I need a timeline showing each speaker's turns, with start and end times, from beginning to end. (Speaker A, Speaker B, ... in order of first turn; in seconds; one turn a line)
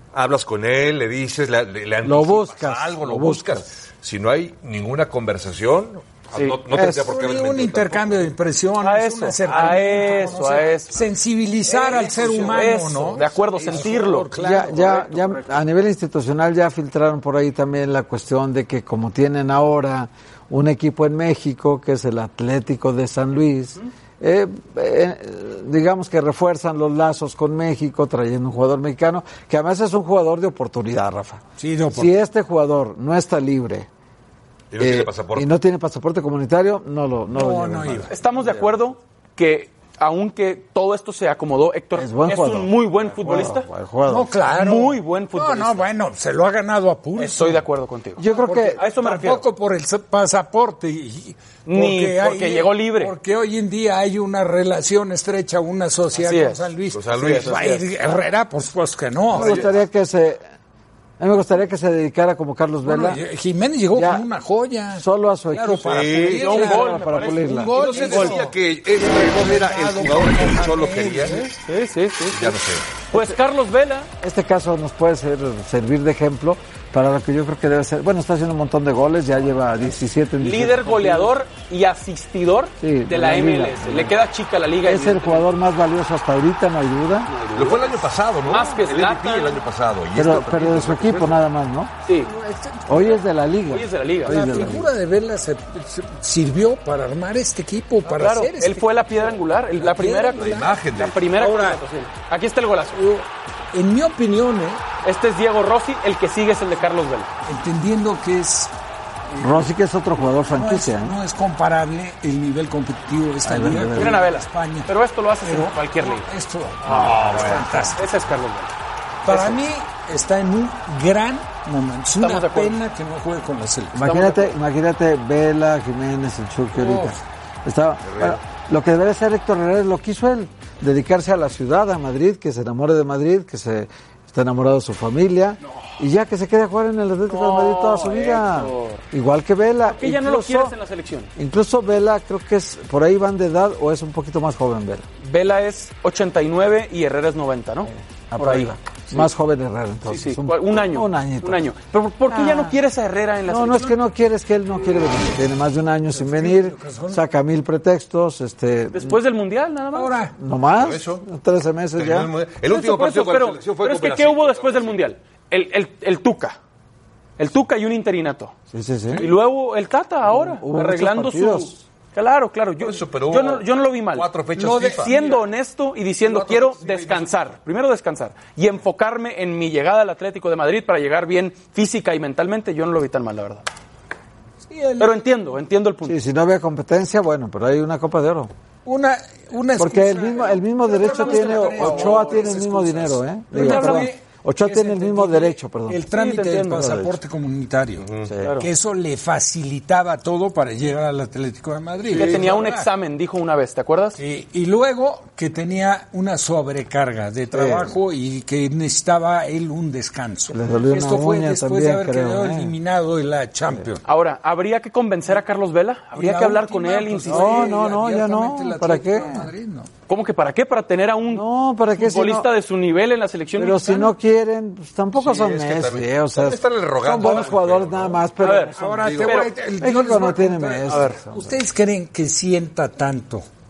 Speaker A: 0.1-8.3
Speaker B: 2.0-3.7
Speaker C: 6.3-6.6
Speaker B: 6.7-7.1
Speaker D: 6.8-15.5
Speaker C: 8.8-11.0
Speaker C: 11.7-14.3
Speaker B: 14.3-33.9
Speaker D: 31.6-32.1
Speaker A: 34.7-35.5
Speaker B: 34.8-38.1
Speaker D: 37.3-38.1
Speaker C: 38.1-43.6
Speaker B: 42.0-44.3
Speaker D: 44.1-47.6
Speaker C: 44.5-45.9
Speaker C: 47.2-49.4
Speaker B: 48.2-48.8
Speaker D: 48.6-59.7
Speaker C: 51.6-53.1
Speaker C: 56.2-57.8
Speaker A: 56.9-57.8
Speaker A: 59.3-59.8
Speaker B: 59.3-60.4
Speaker B: 61.2-63.2
Speaker D: 62.9-71.5
Speaker B: 63.9-64.2
Speaker B: 65.0-67.8
Speaker A: 65.8-66.8
Speaker C: 66.2-68.4
Speaker A: 67.7-71.4
Speaker C: 71.2-74.1
Speaker A: 72.3-73.0
Speaker B: 74.2-81.3
Speaker C: 80.4-85.5
Speaker B: 82.8-84.2
Speaker B: 84.8-87.3
Speaker C: 87.3-89.6
Speaker A: 87.5-91.4
Speaker B: 90.1-91.9
Speaker C: 92.0-92.3
Speaker D: 92.2-93.2
Speaker B: 92.9-94.9
Speaker C: 93.7-94.6
Speaker D: 94.2-98.9
Speaker C: 98.0-103.0
Speaker D: 99.8-100.8
Speaker A: 100.3-101.4
Speaker D: 101.3-101.8
Speaker D: 102.9-104.8
Speaker C: 105.0-107.3
Speaker D: 107.5-108.7
Speaker D: 109.3-109.7
Speaker B: 109.4-111.1
Speaker D: 110.5-118.2
Speaker B: 113.4-114.2
Speaker C: 113.9-116.3
Speaker C: 116.8-118.7
Speaker A: 116.9-117.7
Speaker D: 119.2-124.1
Speaker C: 119.3-119.6
Speaker C: 122.1-122.8
Speaker B: 123.9-140.7
Speaker C: 124.0-124.5
Speaker D: 126.8-127.2
Speaker A: 128.0-128.4
Speaker C: 137.3-139.0
Speaker C: 139.8-141.3
Speaker B: 141.3-145.0
Speaker C: 145.2-149.3
Speaker B: 148.3-151.6
Speaker C: 150.1-153.9
Speaker B: 153.5-159.2
Speaker D: 156.1-157.2
Speaker C: 158.9-160.1
Speaker D: 159.9-160.3
Speaker B: 160.4-162.3
Speaker A: 160.8-161.2
Speaker A: 162.0-165.1
Speaker C: 162.7-166.6
Speaker C: 167.4-168.5
Speaker B: 168.7-169.3
Speaker C: 169.2-174.3
Speaker B: 170.3-171.8
Speaker A: 172.8-175.3
Speaker D: 174.6-175.4
Speaker C: 174.9-183.6
Speaker A: 176.2-177.4
Speaker D: 184.7-185.1
Speaker C: 185.0-186.2
Speaker B: 186.0-188.5
Speaker D: 188.8-202.9
Speaker B: 189.8-196.0
Speaker C: 190.9-192.6
Speaker C: 193.5-194.1
Speaker C: 196.1-196.9
Speaker B: 196.8-197.2
Speaker A: 198.0-198.3
Speaker B: 198.2-198.6
Speaker C: 198.4-198.7
Speaker A: 202.0-202.5
Speaker C: 202.1-204.2
Speaker D: 204.2-214.0
Speaker B: 207.5-207.9
Speaker B: 210.5-212.7
Speaker C: 214.0-217.8
Speaker D: 216.1-219.9
Speaker B: 217.3-219.5
Speaker C: 220.1-224.1
Speaker B: 221.3-222.5
Speaker B: 223.6-231.5
Speaker A: 225.1-228.3
Speaker C: 228.4-229.6
Speaker D: 228.7-233.4
Speaker A: 228.9-229.4
Speaker C: 230.9-231.2